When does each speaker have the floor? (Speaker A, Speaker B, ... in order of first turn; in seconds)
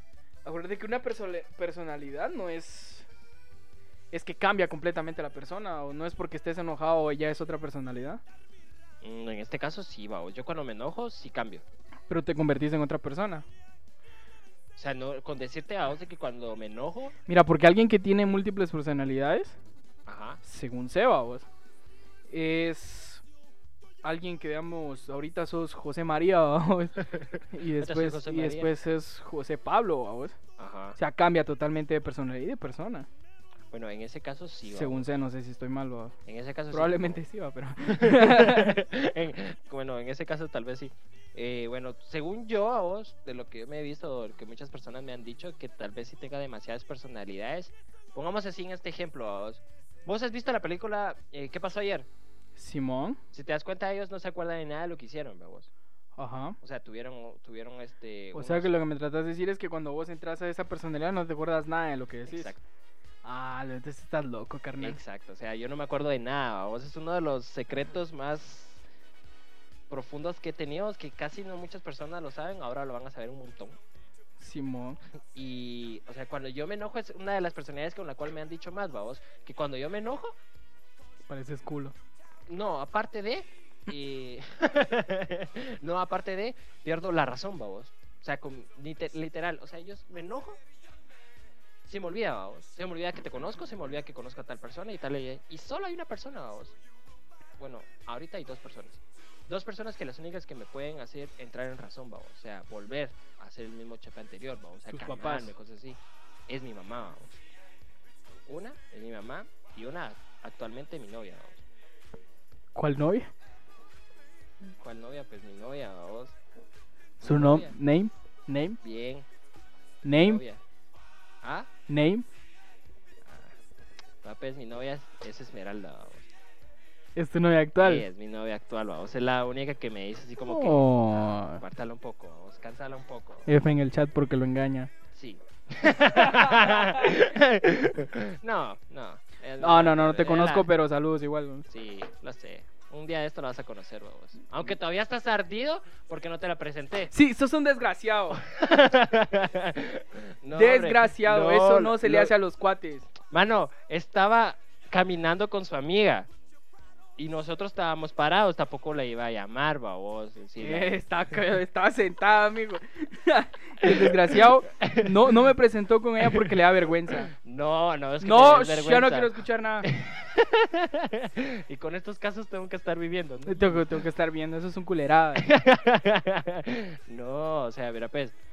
Speaker A: 0.4-3.1, 4.1-8.2, 12.1-13.4, 17.3-19.6, 20.4-21.4, 22.3-23.2, 24.0-30.4, 30.9-33.1, 34.7-36.1, 36.7-38.8, 52.6-53.2, 56.2-56.6, 58.3-62.5, 63.2-65.0, 74.4-75.0, 81.3-81.9, 104.9-105.5, 112.7-113.3, 117.2-118.8, 120.0-120.4, 121.9-122.2, 127.2-128.1, 130.4-131.6, 133.5-134.9, 136.4-136.9, 139.6-141.7, 147.1-148.4, 150.5-153.1, 160.6-167.3, 168.2-169.9, 173.5-175.5
Speaker B: 9.0-11.6, 14.8-17.1, 20.1-20.4, 27.8-28.7, 30.6-31.0, 33.7-35.1, 36.2-37.2, 37.9-52.1, 53.3-55.7, 56.6-58.7, 62.3-62.6, 64.8-68.8, 69.9-73.8, 75.3-80.4, 82.5-90.6, 91.8-96.8, 97.6-107.4, 108.5-111.6, 114.6-116.3, 117.2-117.8, 118.8-119.3, 120.2-120.6, 121.4-121.7, 123.2-123.5, 124.2-126.3, 127.8-133.5, 135.1-140.7, 141.7-147.1, 148.3-152.3, 153.2-156.3, 157.2-161.0, 163.8-165.5, 166.2-166.6, 167.1-174.0, 175.3-178.3